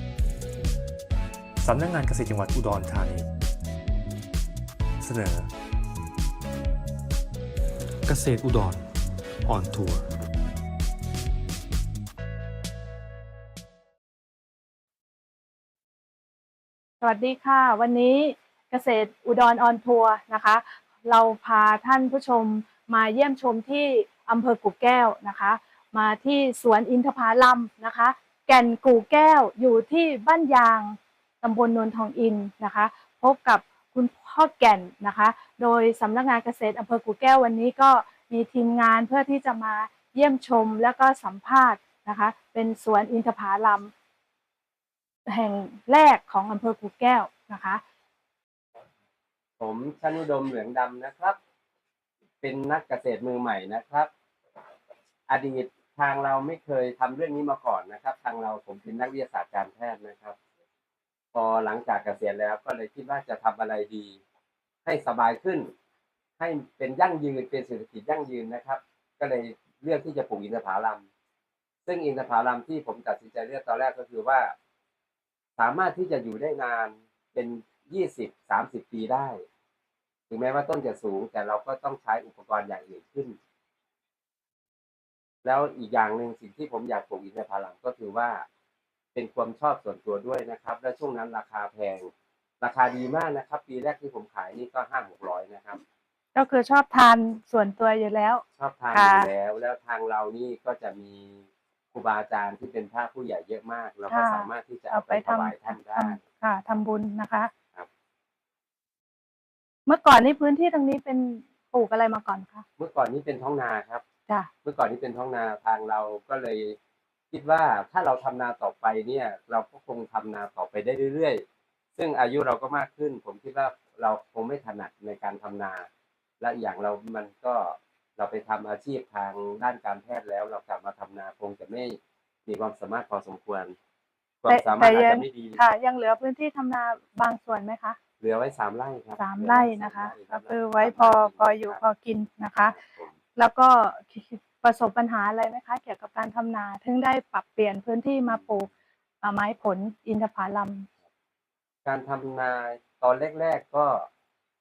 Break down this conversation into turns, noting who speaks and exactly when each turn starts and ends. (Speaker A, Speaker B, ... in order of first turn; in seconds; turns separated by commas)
Speaker A: 1.6-3.3, Speaker A: 5.0-5.5, Speaker A: 8.1-8.8, Speaker A: 9.4-10.1, Speaker B: 17.0-43.9, Speaker B: 45.3-47.8, Speaker C: 49.6-51.4, Speaker C: 52.4-54.1, Speaker C: 55.3-60.4, Speaker C: 61.3-64.2, Speaker C: 64.8-65.7, Speaker C: 66.4-71.0, Speaker C: 71.9-74.5, Speaker C: 75.6-79.4, Speaker C: 80.3-83.4, Speaker C: 85.4-88.5, Speaker C: 89.2-95.8, Speaker B: 96.3-99.3, Speaker C: 98.6-106.2, Speaker B: 104.1-107.5, Speaker B: 109.9-112.6, Speaker C: 112.8-114.0, Speaker C: 114.6-116.8, Speaker C: 117.3-121.4, Speaker C: 122.0-125.9, Speaker C: 126.4-133.8, Speaker C: 134.4-135.6, Speaker B: 134.5-138.0, Speaker C: 138.2-141.8, Speaker B: 139.2-142.8, Speaker C: 142.6-143.2, Speaker B: 143.3-148.7, Speaker C: 148.3-148.6, Speaker B: 149.2-150.9, Speaker C: 151.9-154.1